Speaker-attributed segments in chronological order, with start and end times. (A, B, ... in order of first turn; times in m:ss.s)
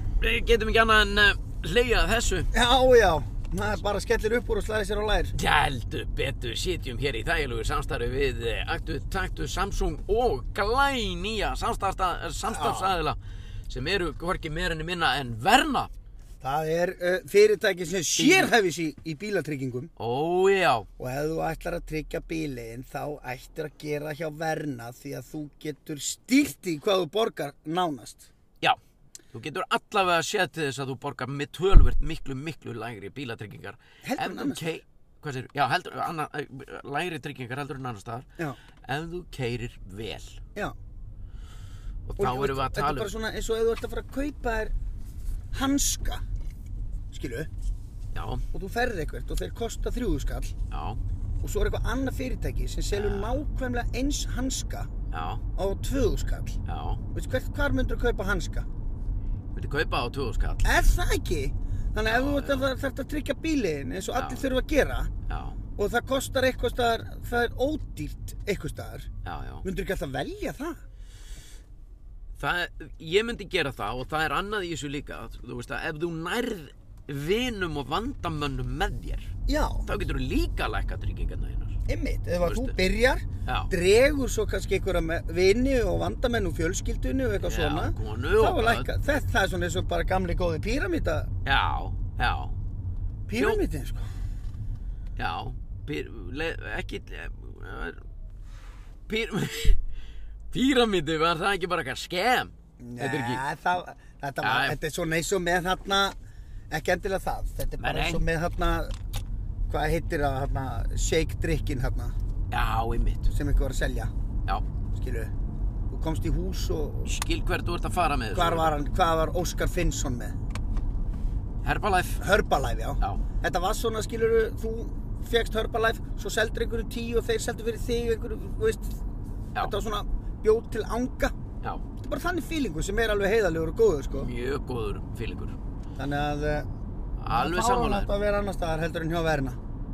0:00.2-0:02.5 A
0:02.5-0:05.3 B
0:05.3-0:15.9 A
0:12.5-0:13.0 B
0:16.4-0:19.9 B
0:18.2-0:18.5 A
0:20.0-0:20.9 A
0:21.0-0:28.3 B
0:29.3-0:38.3 A
0:34.0-0:34.7 B
0:38.8-0:40.4 A
0:42.0-0:43.1 A
0:42.2-0:44.7 B
0:45.5-0:46.2 B
0:47.1-0:47.5 B
0:48.1-0:48.4 A
0:48.5-0:50.6 B
0:50.7-0:51.0 A
0:51.4-0:54.9 B
0:52.9-0:53.4 A
0:55.1-0:55.4 A
0:55.6-0:56.6 B
0:56.7-0:57.0 A
0:57.1-0:58.7 B
0:59.5-1:00.8 A
1:00.6-1:05.1 B
1:02.1-1:02.7 A
1:04.2-1:04.5 A
1:05.3-1:05.6 A
1:05.8-1:09.1 B
1:09.2-1:09.6 A
1:09.6-1:10.8 B
1:12.4-1:19.3 A
1:19.5-1:19.9 B
1:19.8-1:21.8 A
1:21.9-1:31.3 B
1:22.4-1:22.8 A
1:23.5-1:23.7 A
1:27.4-1:28.9 A
1:31.4-1:32.6 A
1:33.3-1:34.1 B
1:33.4-1:33.6 A
1:35.2-1:38.0 A
1:39.1-1:39.8 A
1:40.5-1:43.4 A
1:42.8-1:46.2 B
1:44.4-1:44.8 A
1:46.7-1:49.0 B
1:47.8-1:48.2 A
1:49.7-1:52.2 B
1:52.5-1:53.3 A
1:53.3-1:54.1 B
1:54.9-1:55.3 B
1:55.9-1:57.2 B
1:57.1-1:58.8 A
1:58.3-2:00.4 B
2:01.6-2:02.2 A
2:02.2-2:09.0 B
2:09.6-2:11.4 B
2:12.0-2:14.3 B
2:14.2-2:15.6 A
2:16.0-2:16.7 B
2:17.2-2:18.1 A
2:17.3-2:19.6 B